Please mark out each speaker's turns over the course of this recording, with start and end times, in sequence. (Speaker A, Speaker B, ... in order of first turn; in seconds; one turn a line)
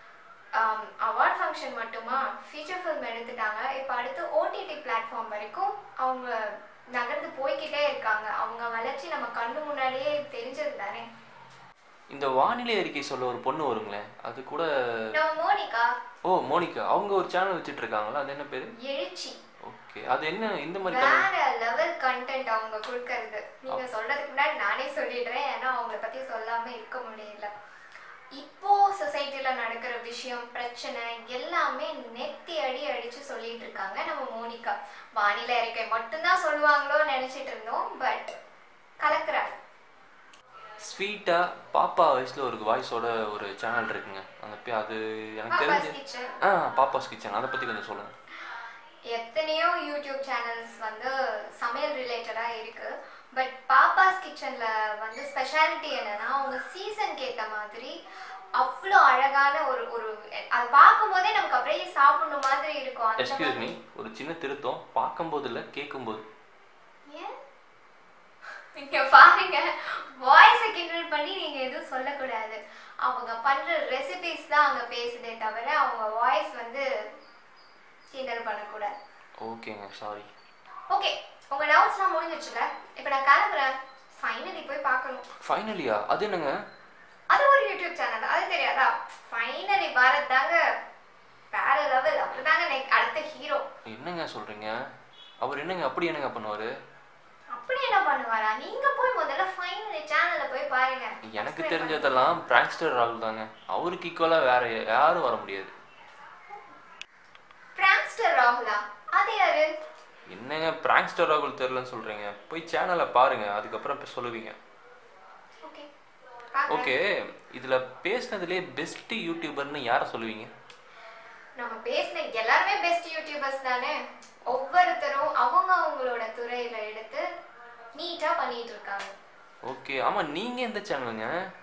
Speaker A: 0.6-6.4
Speaker A: 6.9-11.1
Speaker B: 12.1-15.1
Speaker A: 15.1-15.9
Speaker B: 16.3-18.7
Speaker A: 18.8-19.4
Speaker B: 19.7-21.3
Speaker A: 20.9-27.5
Speaker A: 28.4-38.3
Speaker A: 39.0-39.5
Speaker B: 40.8-48.1
Speaker A: 45.5-46.4
Speaker A: 49.1-57.9
Speaker A: 58.6-63.8
Speaker B: 63.2-66.2
Speaker A: 67.1-67.3
Speaker A: 68.7-76.8
Speaker A: 78.1-78.9
Speaker B: 79.4-80.3
Speaker A: 80.9-85.2
Speaker B: 85.4-86.5
Speaker A: 87.3-90.6
Speaker A: 91.5-93.6
Speaker B: 93.8-94.8
Speaker B: 95.4-96.7
Speaker A: 97.5-102.3
Speaker B: 101.3-105.7
Speaker A: 107.8-109.7
Speaker B: 110.3-114.6
Speaker A: 116.5-116.9
Speaker B: 116.7-120.5
Speaker A: 121.6-127.2
Speaker A: 128.0-129.1
Speaker B: 129.7-131.3